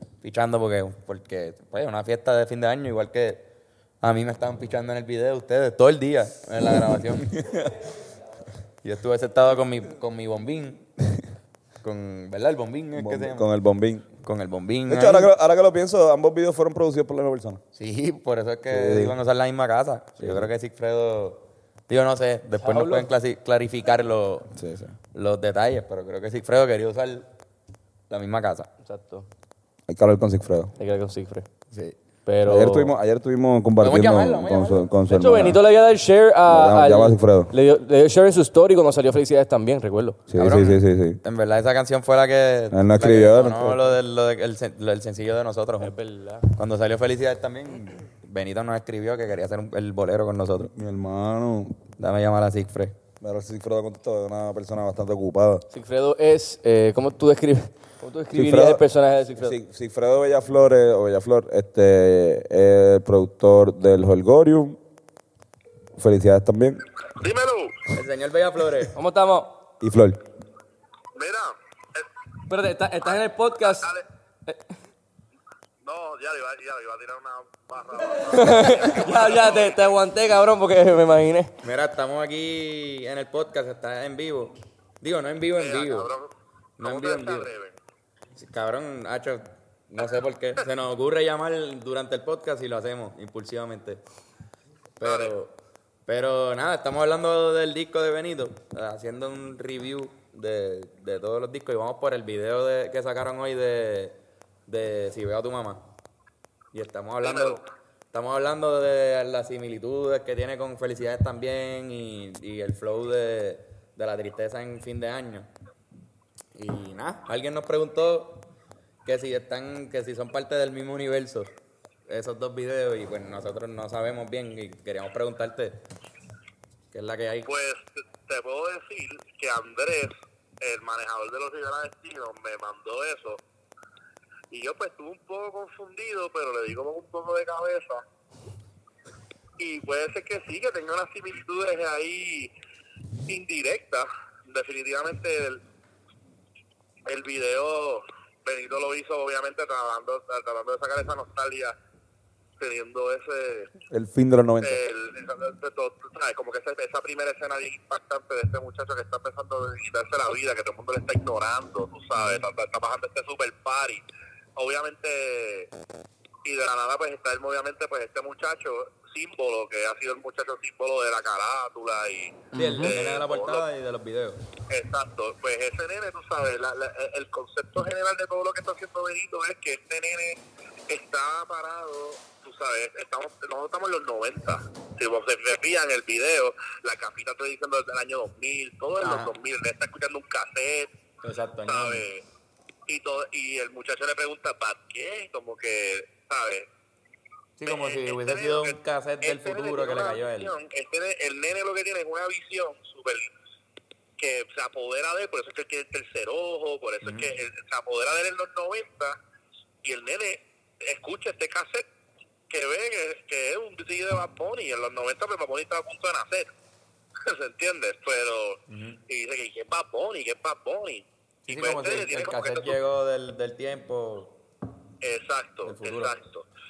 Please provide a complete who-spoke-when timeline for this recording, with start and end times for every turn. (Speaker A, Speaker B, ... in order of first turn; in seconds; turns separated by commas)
Speaker A: 0.2-3.4, Speaker A: 4.0-7.4, Speaker A: 8.8-10.8, Speaker A: 11.8-13.4, Speaker B: 12.9-14.1, Speaker A: 14.2-15.3, Speaker B: 14.9-17.6, Speaker A: 17.7-24.5, Speaker B: 18.7-19.1, Speaker B: 20.2-20.5, Speaker C: 22.6-23.1, Speaker B: 24.5-24.9, Speaker A: 25.1-27.3, Speaker A: 28.1-28.7, Speaker C: 28.8-29.2, Speaker B: 29.9-30.7, Speaker C: 30.8-31.4, Speaker C: 32.2-32.9, Speaker B: 32.4-35.6, Speaker A: 33.8-34.9, Speaker C: 35.1-40.2, Speaker B: 36.5-37.5, Speaker B: 40.3-41.2, Speaker A: 40.4-50.7, Speaker B: 42.7-43.8, Speaker C: 45.8-46.5, Speaker B: 50.7-51.8, Speaker A: 52.0-52.9, Speaker B: 53.2-55.6, Speaker C: 55.7-59.5, Speaker B: 58.3-58.8, Speaker B: 59.3-64.8, Speaker B: 66.0-66.8, Speaker D: 67.2-67.8, Speaker A: 67.9-68.9, Speaker C: 68.9-69.5, Speaker B: 69.8-70.2, Speaker D: 71.1-72.0, Speaker C: 72.5-73.9, Speaker D: 73.0-74.0, Speaker D: 75.8-79.8, Speaker C: 78.3-81.5, Speaker A: 81.6-86.1, Speaker D: 85.5-87.8, Speaker A: 86.8-87.5, Speaker A: 88.3-94.0, Speaker A: 95.0-95.5, Speaker D: 95.0-95.3, Speaker A: 96.1-105.8, Speaker A: 106.7-115.5, Speaker D: 107.2-107.6, Speaker A: 116.5-118.5, Speaker A: 119.0-121.5, Speaker A: 122.1-125.8, Speaker A: 126.9-127.5, Speaker D: 127.4-133.4, Speaker D: 134.5-138.0, Speaker D: 139.6-142.5, Speaker D: 143.3-145.6, Speaker D: 147.1-151.7, Speaker D: 152.6-153.7, Speaker B: 153.9-154.8, Speaker D: 154.6-164.0, Speaker D: 164.6-165.7, Speaker D: 166.4-173.6, Speaker A: 172.5-174.4, Speaker C: 172.6-172.9, Speaker D: 174.7-190.9, Speaker A: 189.0-189.3, Speaker A: 191.2-192.1, Speaker D: 191.6-192.2, Speaker D: 192.9-196.7, Speaker A: 197.6-200.5, Speaker D: 197.7-203.3, Speaker D: 204.2-209.2, Speaker A: 207.0-207.3, Speaker D: 209.8-211.9, Speaker D: 212.5-216.5, Speaker D: 217.2-222.8, Speaker A: 218.7-219.0, Speaker A: 221.4-224.3, Speaker D: 225.0-226.4, Speaker A: 225.6-226.1